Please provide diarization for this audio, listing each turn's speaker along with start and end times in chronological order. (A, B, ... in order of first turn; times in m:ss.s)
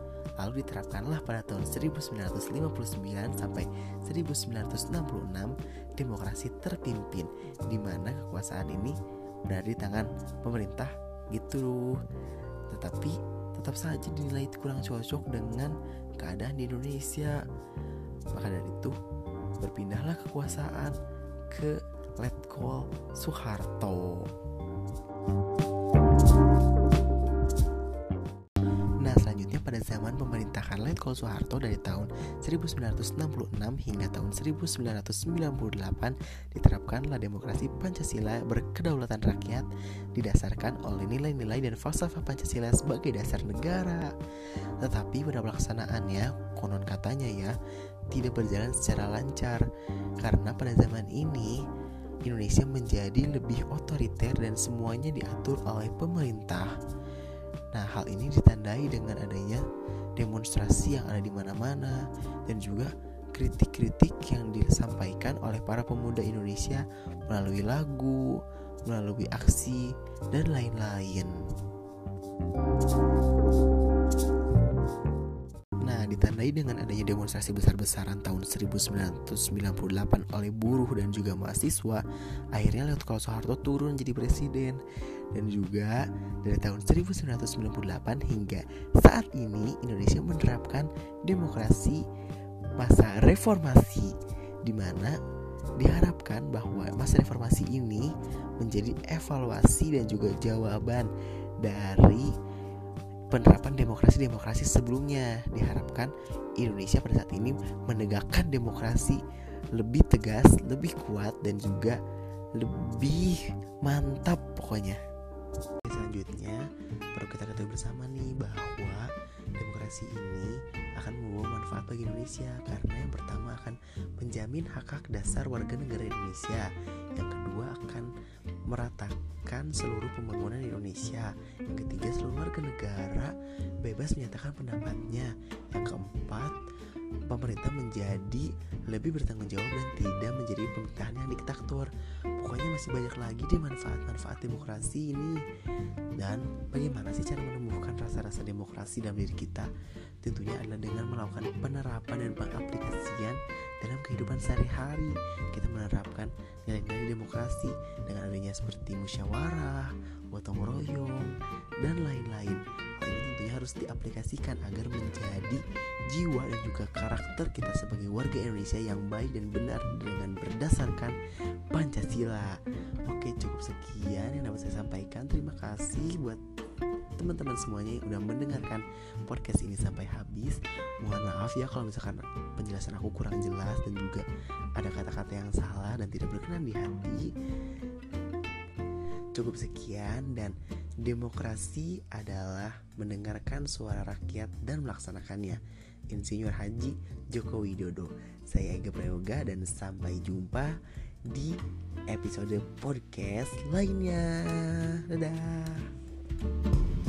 0:00.4-0:12.0 A
0:12.7-0:17.4 A
0:18.3-0:19.0 A
0:19.6-0:21.0 A
0:21.5-0:24.3 A
0:29.0-0:44.1 A
0:44.8-0:47.6 A
0:48.1-0:49.7 A
0:50.2-0:51.6 A
0:52.2-0:56.7 A
0:57.7-0:59.6 A
1:00.2-1:11.4 A
1:15.8-1:32.0 A
1:32.8-1:35.2 A
1:35.8-1:42.4 A
1:43.3-1:49.2 A
1:49.7-1:52.0 A
1:52.6-1:55.0 A
1:55.8-2:08.1 A
2:08.7-2:16.6 A
2:17.3-2:25.4 A
2:26.2-2:29.7 A
2:30.2-2:51.2 A
2:51.7-2:56.4 A
2:57.2-3:07.3 A
3:09.3-3:25.9 A